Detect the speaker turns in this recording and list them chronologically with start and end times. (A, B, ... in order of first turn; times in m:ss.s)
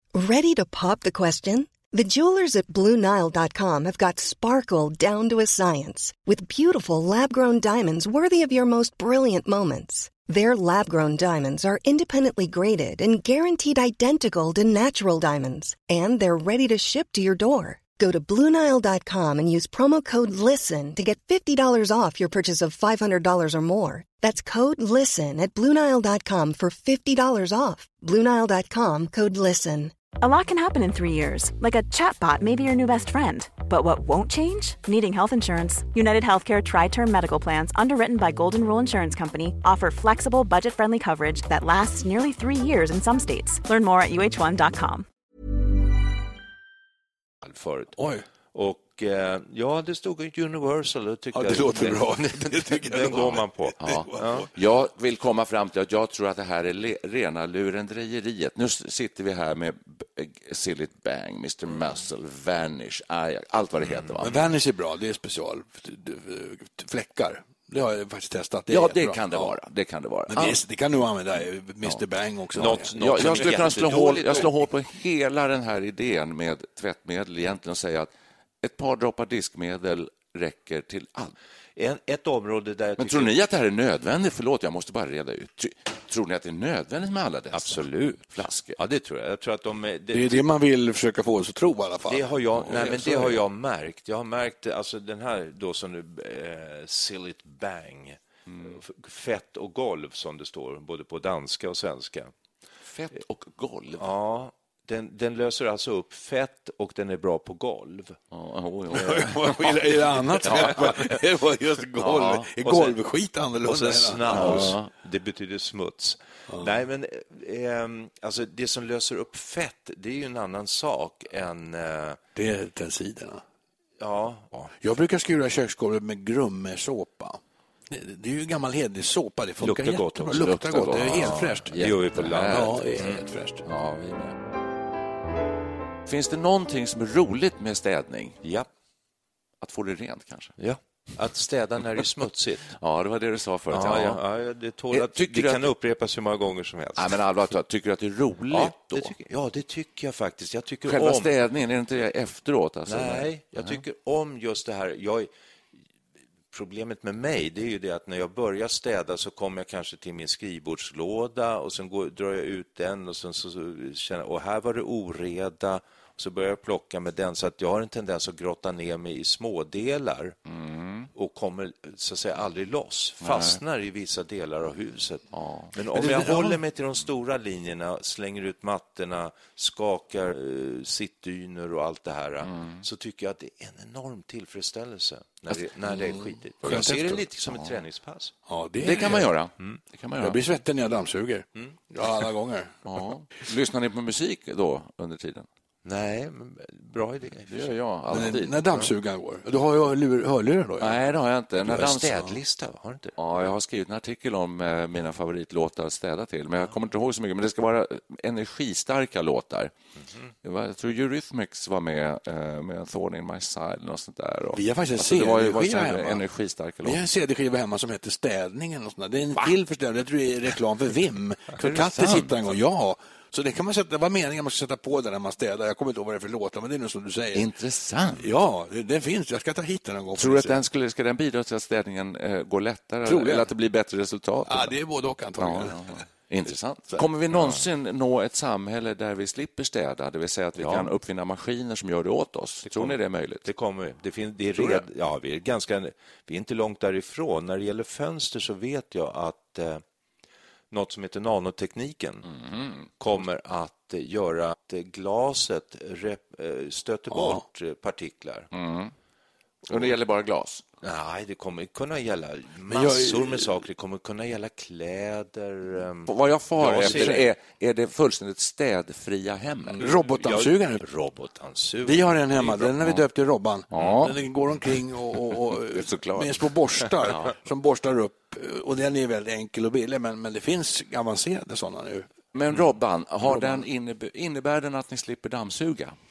0:00.1-0:29.9 A
0:30.2-0:45.0 B
0:47.4-0:48.0 C
0:48.0-0:48.2 D
0:48.5-0:54.5 C
0:51.3-0:54.5 D
0:53.8-1:04.4 E
1:03.8-1:04.2 C
1:04.2-1:09.5 D
1:08.7-1:10.6 E
1:10.3-1:13.7 D
1:11.8-1:18.1 E
1:12.6-1:14.5 C
1:18.6-1:21.3 E
1:21.8-1:23.3 C
1:23.0-1:28.8 E
1:27.5-1:30.4 C
1:30.1-1:33.2 D
1:32.0-1:42.3 C
1:32.6-1:33.3 E
1:38.5-1:38.8 E
1:42.8-1:44.0 E
1:44.0-1:48.2 C
1:48.3-1:49.8 E
1:48.9-1:54.8 D
1:50.4-1:50.9 E
1:50.4-1:50.9 C
1:52.0-1:52.5 E
1:52.6-1:53.0 C
1:53.6-2:02.2 C
1:54.3-1:54.9 E
2:02.3-2:03.4 D
2:04.0-2:04.7 C
2:04.8-2:11.8 D
2:09.6-2:10.4 C
2:10.3-2:13.1 E
2:11.8-2:13.2 C
2:12.4-2:13.6 D
2:13.6-2:14.4 E
2:16.0-2:18.4 E
2:18.4-2:18.7 C
2:19.6-2:20.5 E
2:20.6-2:22.8 C
2:22.8-2:24.2 E
2:23.7-2:27.2 C
2:24.9-2:25.7 E
2:27.0-2:29.1 E
2:28.5-2:31.3 C
2:30.8-2:33.8 E
2:32.9-2:35.3 C
2:36.5-2:50.4 C
2:50.5-2:51.1 E
2:51.1-3:08.3 C
2:53.2-2:53.6 E
2:55.3-2:55.7 E
2:55.9-2:56.6 D
3:02.4-3:02.8 E
3:05.9-3:07.2 D
3:06.6-3:07.8 E
3:08.5-3:09.3 D
3:08.8-3:10.4 E
3:10.2-3:12.8 D
3:12.8-3:15.5 E
3:15.8-3:17.7 C
3:17.5-3:18.7 E
3:18.1-3:21.0 D
3:20.8-3:22.4 E
3:21.6-3:23.2 C
3:23.2-3:29.7 E
3:30.4-3:37.0 E
3:34.5-3:36.2 D
3:36.8-3:47.5 D
3:41.6-3:42.5 E
3:47.3-3:48.3 E
3:48.2-3:50.6 D
3:50.1-3:54.8 E
3:53.0-3:53.5 D
3:54.4-3:56.0 D
3:55.4-4:03.4 E
3:57.4-3:57.6 C
4:00.6-4:00.9 C
4:02.6-4:09.8 C
4:04.5-4:04.8 E
4:10.7-4:12.3 C
4:12.3-4:12.9 E
4:13.0-4:18.5 C
4:17.1-4:17.4 D
4:18.5-4:18.9 E
4:19.7-4:20.0 C
4:19.7-4:20.6 E
4:20.8-4:27.3 C
4:22.7-4:23.5 D
4:26.1-4:29.8 E
4:26.8-4:27.2 D
4:29.6-4:32.7 C
4:29.8-4:30.8 D
4:31.8-4:42.1 D
4:33.7-4:34.2 E
4:35.5-4:37.3 E
4:42.3-4:45.9 E
4:43.2-4:43.6 D